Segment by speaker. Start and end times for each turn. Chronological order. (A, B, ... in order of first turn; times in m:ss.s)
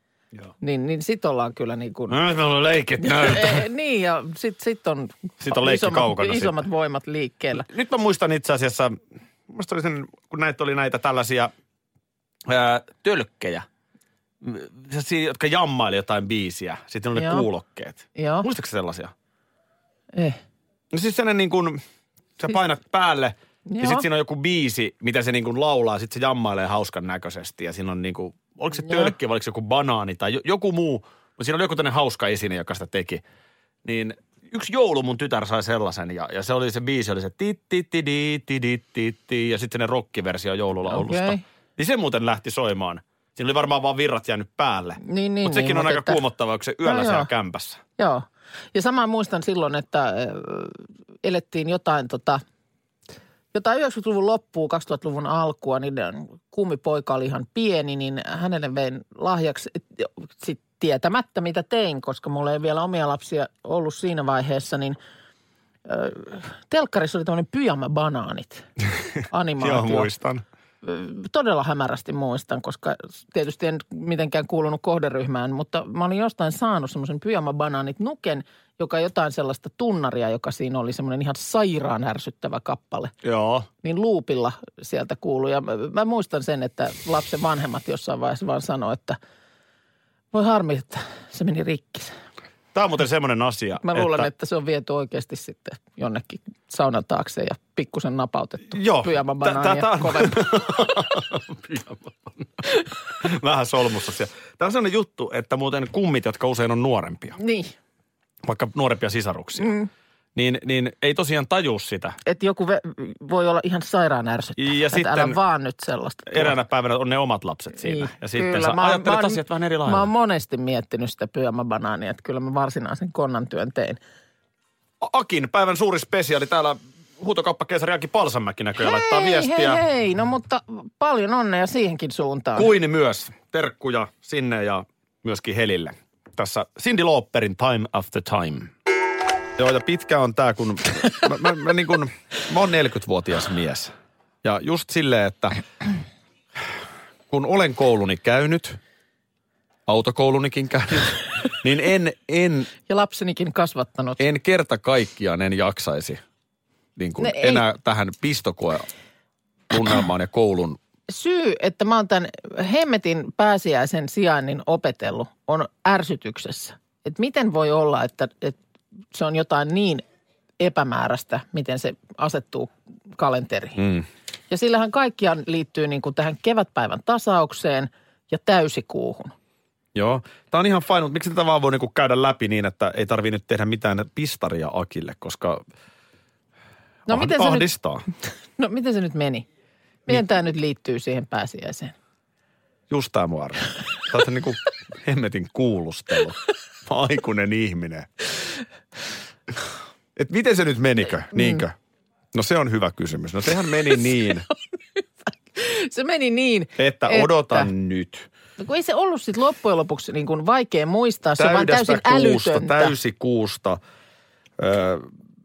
0:00.6-0:02.2 A
0:02.1-0:03.6 B
0:03.0-0:07.7 A
0:05.4-0:06.6 B
0:07.5-0:11.5 B
0:12.4-0:13.6 B
0:14.4-0:19.1 B
0:17.1-0:17.5 A
0:18.1-0:18.5 A
0:20.1-0:20.4 A
0:20.9-0:21.8 B
0:22.4-0:33.2 B
0:23.7-0:24.0 A
0:33.8-0:47.8 B
0:40.9-0:41.4 A
0:45.0-0:46.2 A
0:46.8-0:47.3 A
0:48.0-0:52.4 A
0:53.5-1:05.0 A
1:05.9-1:08.7 A
1:09.3-1:10.1 A
1:09.6-1:10.4 B
1:10.8-1:23.1 A
1:23.2-1:23.7 B
1:23.8-1:29.2 A
1:30.3-1:32.1 A
1:32.7-1:34.3 B
1:33.8-1:40.4 A
1:38.7-1:47.4 B
1:47.4-1:47.7 A
1:48.4-1:49.7 B
1:49.6-1:49.9 A
1:50.3-1:52.2 B
1:52.2-1:56.6 A
1:54.6-1:55.4 B
1:56.3-2:00.1 B
1:57.8-2:04.0 A
2:05.0-2:09.8 B
2:08.8-2:12.7 A
2:12.6-2:18.7 B
2:19.6-2:23.9 B
2:24.4-2:25.6 B
2:27.3-2:28.8 B
2:29.9-2:32.7 B
2:32.9-2:34.2 A
2:34.2-2:36.2 B
2:37.0-2:38.9 B
2:37.2-2:37.6 A
2:39.7-2:40.8 B
2:41.1-2:48.6 A
2:49.1-2:50.0 A
2:50.6-2:53.8 A
2:53.8-2:54.0 B
2:54.5-2:59.3 A
2:59.9-3:05.6 B
3:07.1-3:08.0 B
3:07.1-3:07.7 A
3:08.6-3:09.4 A
3:10.0-3:11.9 A
3:12.9-3:18.1 B
3:20.2-3:21.7 B
3:21.3-3:21.6 A
3:22.3-3:24.4 B
3:25.0-3:27.7 A
3:26.8-3:28.3 B
3:28.6-3:32.9 A
3:31.4-3:33.8 B
3:34.6-3:35.1 B